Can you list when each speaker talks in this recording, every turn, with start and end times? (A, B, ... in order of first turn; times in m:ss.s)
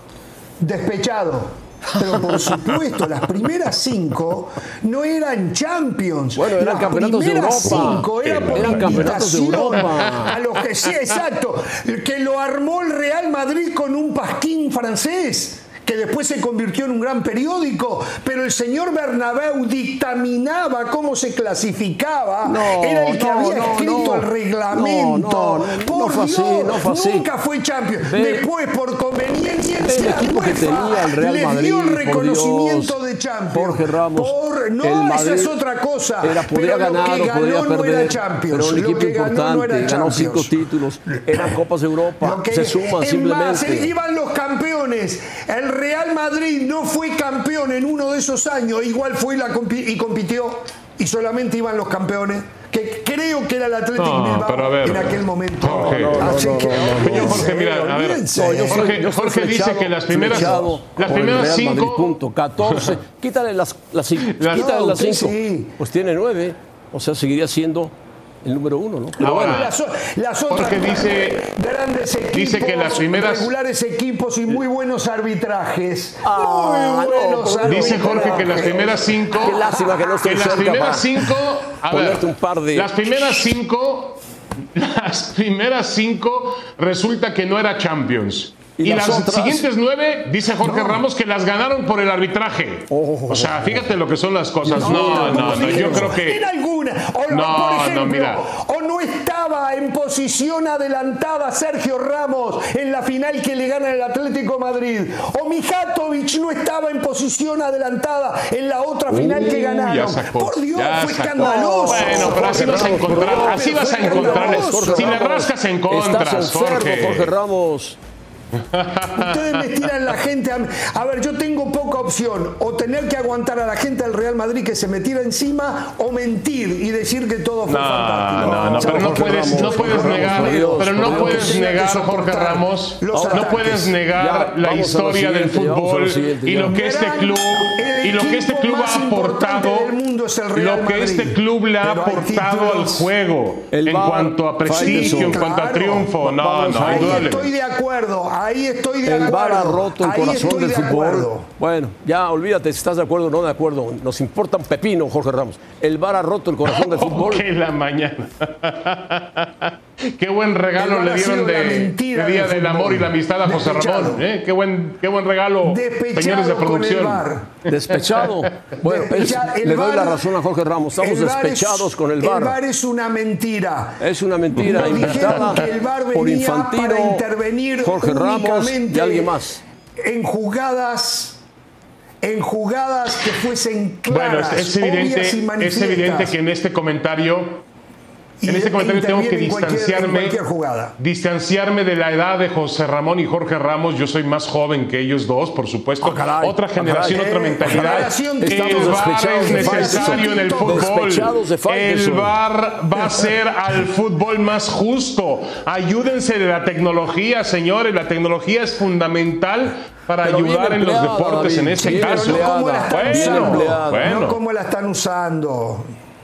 0:00.6-0:40.5 A
0:02.0-0:02.8 B
0:06.3-0:10.4 B
0:07.6-0:09.2 C
0:22.4-0:27.3 B
0:28.0-0:28.4 B
0:29.8-0:33.0 B
0:33.5-0:35.6 B
0:36.2-0:43.9 B
0:41.3-0:41.6 A
0:42.2-0:58.9 A
0:54.0-1:02.9 C
0:55.6-0:57.5 B
0:58.3-1:09.6 B
1:04.2-1:04.7 C
1:04.5-1:05.8 A
1:09.2-1:09.7 C
1:09.2-1:20.2 A
1:10.5-1:11.5 C
1:12.3-1:13.5 C
1:16.2-1:18.8 B
1:17.6-1:24.2 C
1:19.4-1:21.2 B
1:21.9-1:22.9 B
1:24.7-1:36.4 C
1:28.8-1:29.6 B
1:30.6-1:31.0 A
1:32.9-1:33.9 B
1:34.6-1:36.1 B
1:34.7-1:55.2 A
1:37.3-1:38.4 C
1:49.1-1:57.3 C
1:51.4-1:58.0 B
1:58.5-1:59.6 C
1:59.1-2:13.8 A
2:07.7-2:19.9 C
2:08.4-2:11.5 B
2:13.1-2:16.8 B
2:16.6-2:23.1 A
2:20.5-2:27.5 C
2:23.7-2:25.4 B
2:24.7-2:26.1 A
2:26.2-2:27.4 B
2:26.7-2:31.5 A
2:29.0-2:37.4 B
2:36.7-2:48.5 C
2:40.8-2:44.2 A
2:45.6-2:47.5 A
2:47.7-2:52.6 B
2:48.8-2:50.3 A
2:51.0-2:59.3 A
2:54.0-2:57.2 B
2:57.8-2:59.6 B
3:00.0-3:01.4 A
3:02.2-3:06.3 A
3:04.1-3:07.6 C
3:08.4-3:10.9 A
3:08.4-3:10.4 C
3:11.0-3:34.4 C
3:16.0-3:22.4 B
3:17.0-3:20.9 A
3:30.2-3:34.2 B
3:31.9-3:35.9 A